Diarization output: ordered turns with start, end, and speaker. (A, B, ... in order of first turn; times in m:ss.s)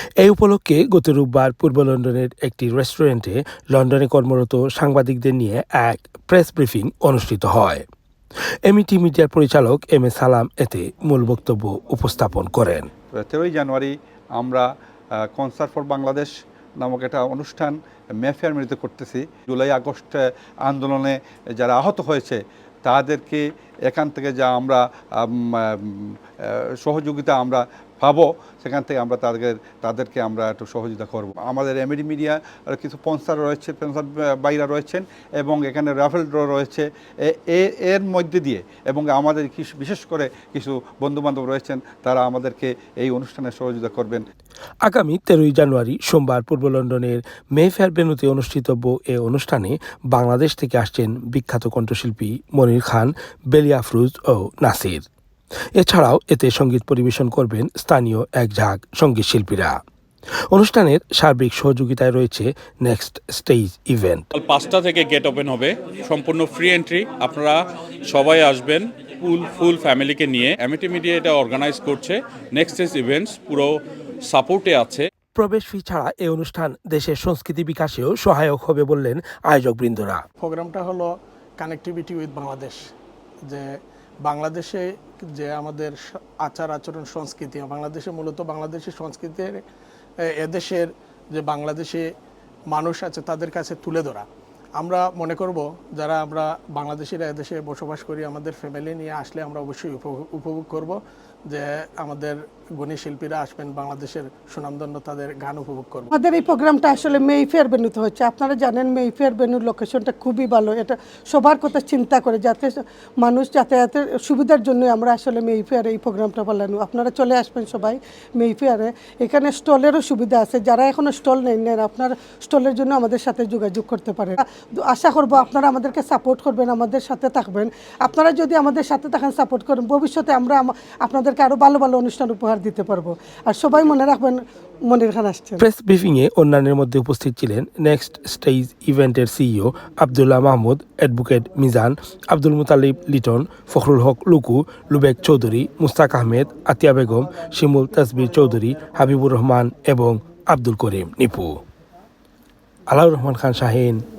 0:00.2-0:07.8 A
0:08.7-0:12.9 A
0:13.1-0:14.7 B
0:15.2-0:44.2 B
0:44.8-0:55.0 A
0:55.8-0:59.8 A
1:00.5-1:04.3 A
1:04.3-1:15.0 C
1:15.4-1:20.2 A
1:20.4-1:22.8 D
1:24.2-1:29.6 D
1:30.2-1:32.1 D
1:32.7-1:34.2 D
1:34.8-1:46.1 D
1:46.1-2:15.7 E
2:15.6-2:31.5 A
2:32.9-2:34.0 A